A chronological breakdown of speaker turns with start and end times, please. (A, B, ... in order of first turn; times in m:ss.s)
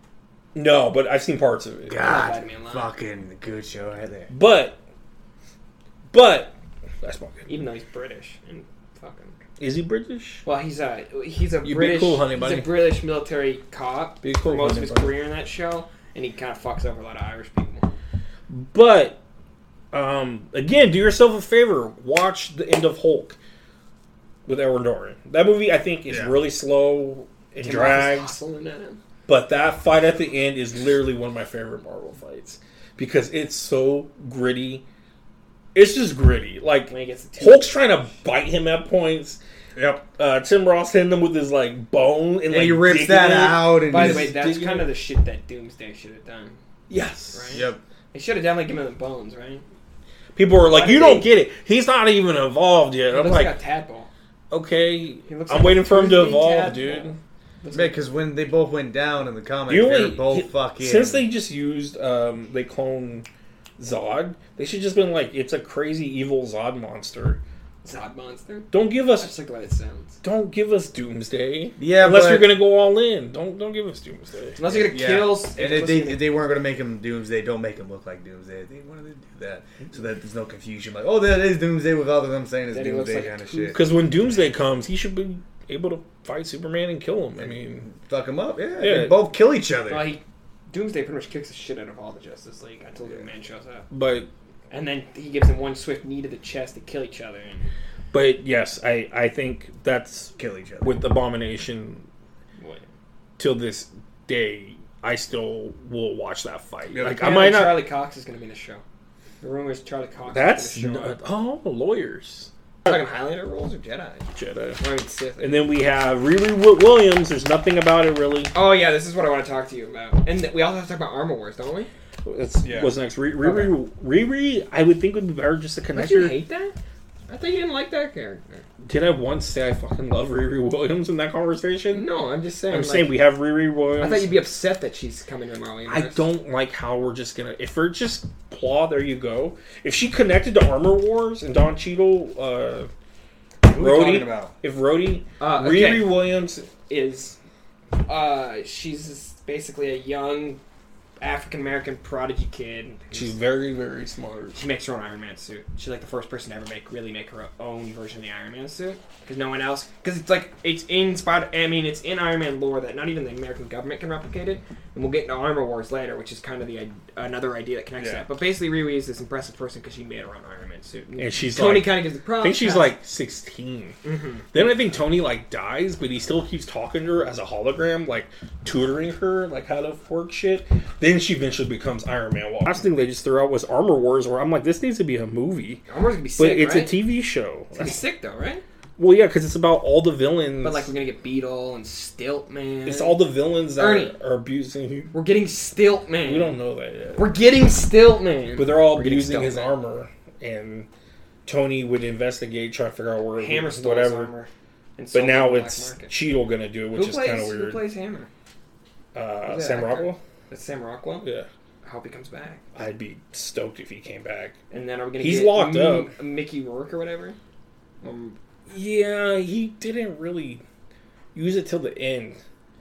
0:00.6-0:02.0 A
0:01.9-0:04.3 B
0:02.0-0:02.9 C
0:04.3-0:04.8 A
0:06.1-0:07.5 A
0:07.5-0:09.4 C
0:09.6-0:10.4 A
0:10.4-0:17.9 C
0:11.6-0:12.8 A
0:14.2-0:15.2 A
0:18.5-0:19.2 A
0:19.9-0:23.4 A
0:24.5-0:28.3 A
0:26.1-0:26.4 B
0:27.6-0:29.0 C
0:29.3-0:34.8 A
0:35.7-0:39.4 A
0:36.9-0:37.8 C
0:39.8-0:40.0 B
0:40.2-0:44.9 A
0:42.5-0:44.4 B
0:43.9-0:46.6 C
0:46.9-0:47.7 A
0:47.3-0:49.6 C
0:47.5-0:47.8 B
0:50.4-0:53.6 A
0:50.7-0:51.3 C
0:53.1-0:54.1 C
0:54.5-0:57.2 A
0:55.3-0:58.0 C
0:57.7-1:01.3 B
0:59.7-1:03.3 A
1:03.8-1:07.4 A
1:07.8-1:10.2 C
1:08.7-1:09.3 A
1:10.2-1:14.6 A
1:11.8-1:12.5 B
1:14.6-1:16.3 C
1:14.6-1:23.8 B
1:22.7-1:24.0 C
1:23.7-1:27.9 A
1:27.4-1:30.1 B
1:28.8-1:29.2 A
1:29.9-1:33.9 C
1:33.9-1:34.3 A
1:34.7-1:37.7 C
1:38.1-1:42.1 A
1:40.4-1:41.0 B
1:42.6-1:42.8 C
1:43.4-1:47.9 A
1:46.9-1:47.2 B
1:47.2-1:48.8 C
1:49.4-1:51.2 C
1:50.3-1:53.0 A
1:52.8-1:54.3 C
1:54.3-1:54.8 A
1:54.8-1:55.7 C
1:55.4-1:58.5 A
1:58.5-2:01.9 C
2:02.2-2:06.4 A
2:02.6-2:02.9 B
2:03.4-2:03.8 C
2:05.9-2:06.8 C
2:07.3-2:08.6 C
2:08.8-2:12.1 A
2:11.9-2:13.2 C
2:12.7-2:14.4 A
2:14.0-2:16.2 C
2:15.9-2:22.9 A
2:23.6-2:24.5 B
2:23.7-2:26.7 A
2:25.4-2:26.1 C
2:26.9-2:27.4 C
2:28.1-2:30.6 C
2:31.2-2:33.4 C
2:33.1-2:34.6 A
2:34.6-2:53.0 C
2:48.0-2:48.3 B
2:51.2-2:54.0 A
2:54.0-2:54.5 C
2:54.5-3:05.8 A
3:05.9-3:07.0 C
3:06.4-3:08.0 A
3:07.7-3:08.6 C
3:09.0-3:10.9 A
3:10.6-3:13.2 C
3:12.9-3:15.1 A
3:13.8-3:14.2 C
3:15.1-3:16.5 C
3:16.2-3:17.4 A
3:17.2-3:19.7 C
3:18.6-3:20.9 A
3:21.5-3:24.3 A
3:23.4-3:26.1 C
3:25.1-3:27.8 A
3:26.9-3:28.3 C
3:29.1-3:30.2 A
3:29.4-3:31.3 C
3:31.2-3:31.5 A
3:31.8-3:32.6 C
3:32.8-3:34.6 A
3:34.7-3:37.4 C
3:35.2-3:36.2 A
3:38.0-3:38.4 C
3:38.7-3:40.6 A
3:41.4-3:42.4 A